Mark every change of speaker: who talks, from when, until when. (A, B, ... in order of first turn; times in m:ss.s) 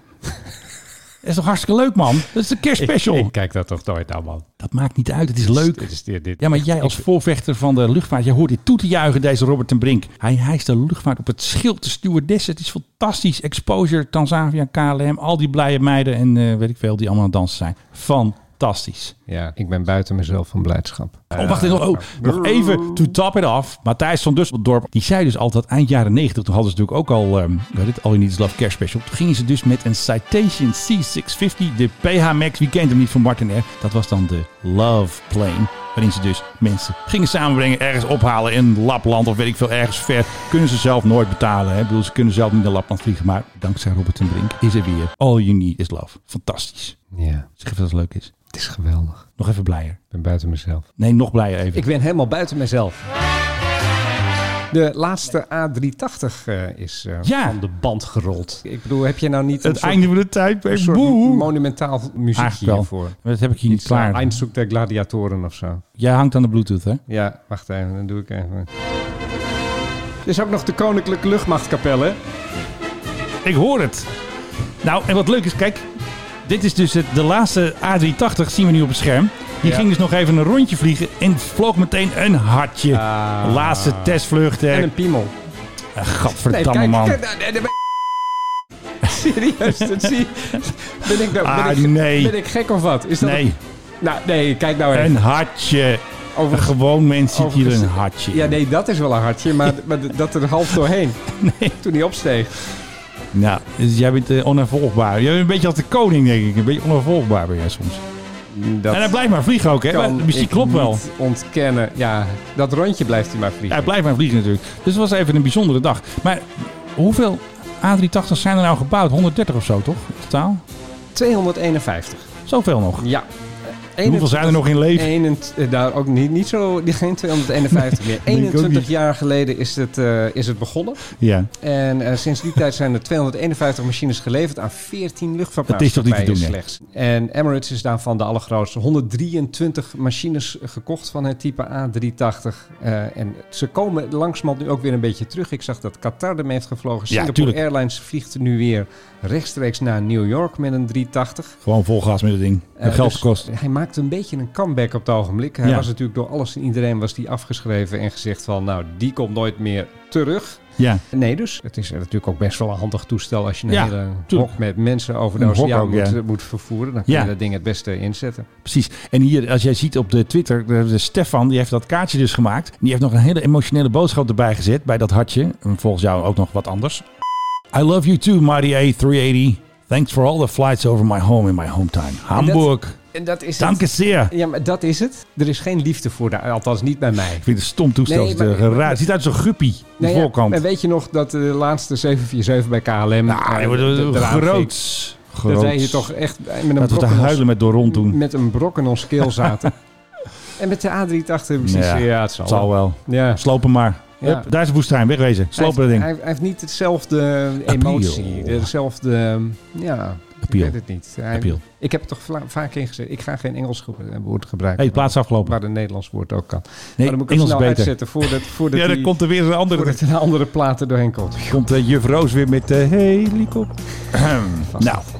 0:01.2-0:03.3 A
0:02.8-0:04.5 B
0:04.6-0:19.1 A
0:05.5-0:07.0 B
0:19.3-0:23.1 B
0:21.3-0:47.0 A
0:47.1-0:47.5 B
0:47.6-0:48.3 A
0:48.5-0:49.3 B
0:49.4-0:50.0 A
0:50.1-0:50.9 B
0:51.0-0:51.8 A
0:51.7-0:53.0 B
0:54.7-1:00.1 B
0:57.2-0:57.6 A
0:59.6-1:01.5 A
1:00.7-1:03.2 B
1:02.4-1:04.3 A
1:03.7-1:05.8 B
1:06.0-1:07.0 A
1:07.1-1:08.7 B
1:10.2-1:12.2 B
1:13.4-1:14.1 A
1:14.8-1:15.9 A
1:16.4-1:24.9 A
1:22.9-1:25.3 B
1:26.0-1:27.2 A
1:26.4-1:27.8 B
1:29.0-1:33.4 B
1:31.3-1:32.3 A
1:33.2-1:33.6 A
1:34.0-1:35.2 B
1:34.9-1:38.6 A
1:36.3-1:41.2 B
1:41.3-1:41.7 A
1:41.8-1:42.5 B
1:43.3-1:48.0 A
1:48.5-1:49.2 B
1:48.9-1:51.0 A
1:49.9-1:53.9 B
1:53.7-2:00.6 A
2:01.1-2:02.3 B
2:02.5-2:03.1 A
2:03.0-2:11.0 B
2:04.0-2:05.1 A
2:07.8-2:08.9 A
2:11.2-2:11.5 A
2:11.6-2:31.6 B
2:15.7-2:16.5 A
2:27.1-2:27.6 A
2:31.6-2:33.5 A
2:32.8-2:48.5 B
2:35.6-2:35.9 A
2:43.7-2:44.5 A
2:45.4-2:46.2 A
2:47.1-2:47.3 A
2:48.6-2:57.0 A
2:57.7-3:03.0 A
3:02.3-3:07.5 B
3:03.6-3:04.3 A
3:07.4-3:10.6 A
3:08.0-3:09.0 B
3:10.0-3:14.7 B
3:13.3-3:16.1 A
3:15.4-3:19.7 B
3:16.8-3:18.2 A
3:20.6-3:23.4 B
3:21.6-3:26.1 A
3:24.2-3:24.5 B
3:25.5-3:39.2 B
3:27.6-3:28.7 A
3:30.4-3:30.8 A
3:31.3-3:31.6 A
3:34.8-3:35.6 A
3:37.0-3:40.0 A
3:39.7-3:41.6 B
3:41.5-3:45.0 A
3:44.6-3:45.1 B